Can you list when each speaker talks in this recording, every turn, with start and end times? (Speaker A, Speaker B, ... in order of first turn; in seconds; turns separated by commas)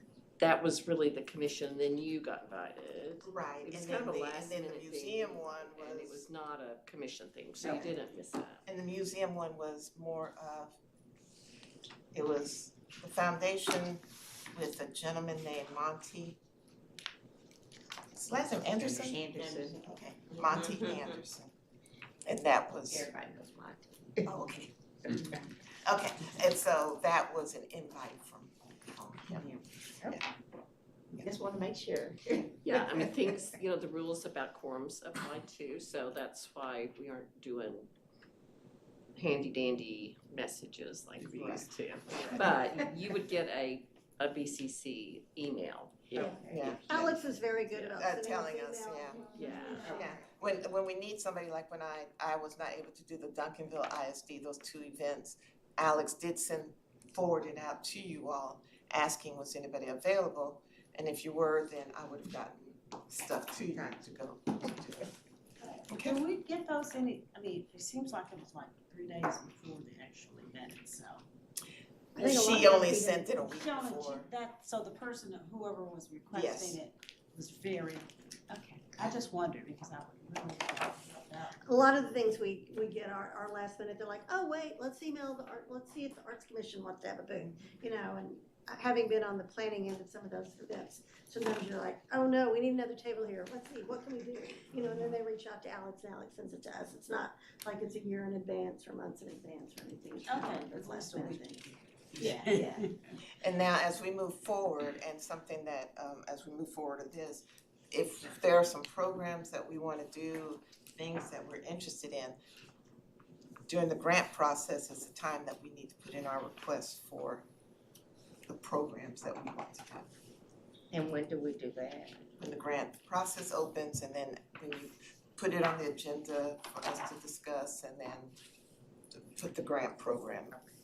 Speaker A: 0.4-8.7, Speaker B: 3.3-6.2, Speaker B: 7.6-8.0, Speaker B: 8.7-10.8, Speaker B: 12.1-14.0, Speaker B: 14.5-16.4, Speaker B: 18.1-21.5, Speaker C: 18.8-20.4, Speaker B: 22.2-23.1, Speaker C: 22.9-24.5, Speaker B: 24.2-24.7, Speaker C: 25.1-25.5, Speaker B: 25.8-29.5, Speaker C: 29.3-30.2, Speaker C: 31.2-33.0, Speaker A: 32.6-37.9, Speaker A: 39.2-46.4, Speaker B: 41.2-42.5, Speaker B: 46.2-49.3, Speaker C: 46.2-46.8, Speaker D: 46.9-50.1, Speaker E: 49.2-49.9, Speaker A: 49.3-50.0, Speaker B: 49.8-65.1, Speaker B: 65.9-66.2, Speaker E: 65.9-71.2, Speaker D: 72.2-73.3, Speaker B: 72.2-74.3, Speaker E: 73.5-81.5, Speaker B: 76.3-76.8, Speaker D: 81.6-102.9, Speaker E: 100.3-101.6, Speaker E: 102.2-102.9, Speaker B: 103.3-112.4, Speaker B: 113.7-117.4, Speaker B: 118.5-120.1, Speaker C: 120.9-122.2, Speaker B: 122.4-128.3, Speaker B: 129.2-130.6